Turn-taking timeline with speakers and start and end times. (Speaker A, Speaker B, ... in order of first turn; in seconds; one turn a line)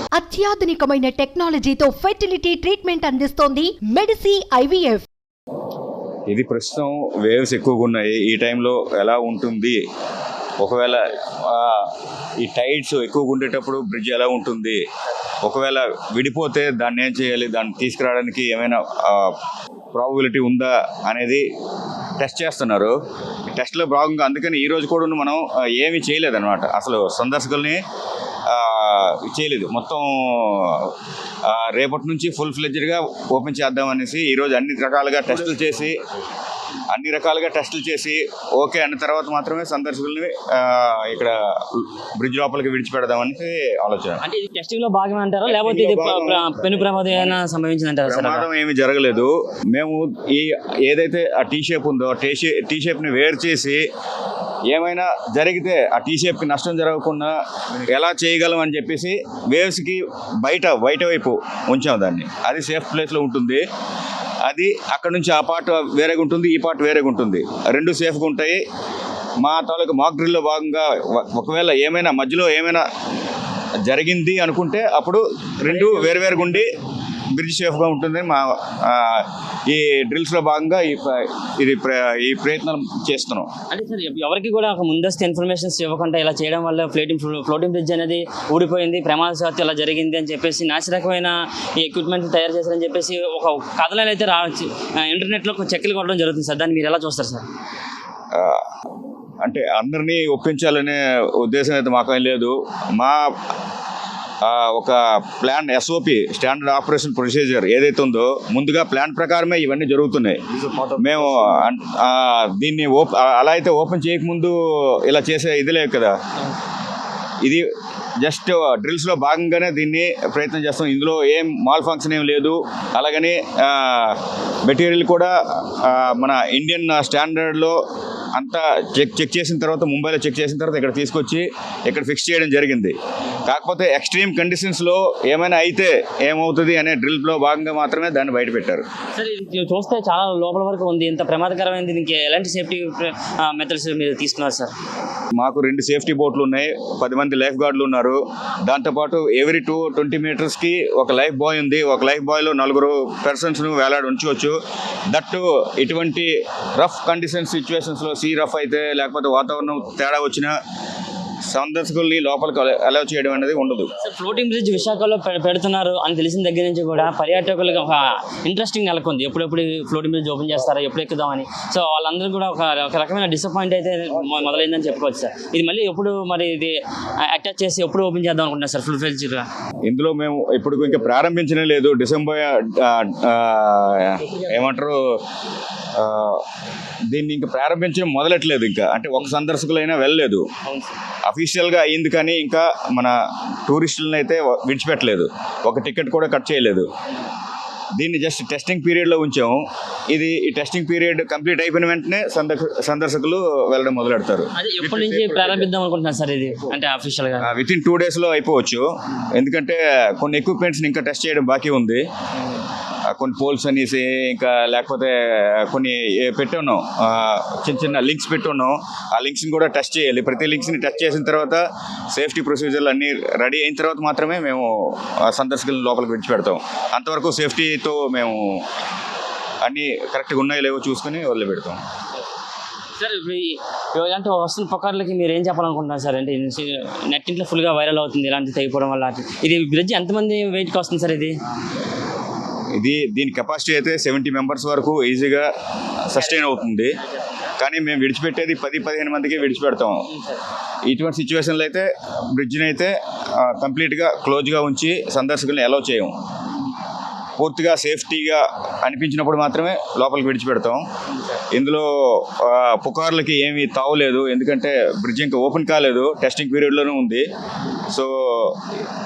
Speaker A: 0.2-5.0
Speaker B: 6.3-9.8
Speaker B: 10.6-14.8
Speaker B: 15.4-19.4
Speaker B: 19.9-21.4
Speaker B: 22.2-22.9
Speaker B: 23.5-27.8
Speaker B: 28.4-36.0
Speaker B: 36.9-44.2
Speaker C: 44.2-48.5
Speaker B: 45.5-47.4
Speaker B: 48.0-53.8
Speaker B: 54.7-63.6
Speaker B: 64.4-68.6
Speaker B: 69.4-72.8
Speaker B: 73.8-76.8
Speaker C: 75.7-76.6
Speaker B: 77.3-83.5
Speaker C: 83.7-97.5
Speaker B: 98.3-98.7
Speaker B: 99.4-103.5
Speaker B: 104.4-116.2
Speaker B: 117.4-117.7
Speaker B: 118.2-127.8
Speaker B: 128.3-138.8
Speaker C: 139.1-144.7
Speaker B: 145.4-154.6
Speaker B: 155.1-160.6
Speaker B: 161.5-163.9
Speaker C: 164.0-179.5
Speaker B: 179.8-185.2
Speaker B: 185.9-186.5
Speaker B: 187.1-190.5
Speaker C: 190.6-191.0
Speaker B: 191.2-196.9
Speaker B: 198.0-205.7
Speaker C: 204.6-207.5
Speaker B: 207.4-212.1
Speaker B: 213.1-228.7
Speaker B: 229.6-231.8
Speaker C: 233.0-241.4
Speaker B: 242.8-247.0
Speaker C: 247.0-247.5
Speaker B: 247.6-250.1
Speaker C: 250.1-250.4
Speaker B: 250.8-256.1
Speaker B: 257.4-260.8
Speaker B: 261.4-267.3
Speaker B: 267.9-268.8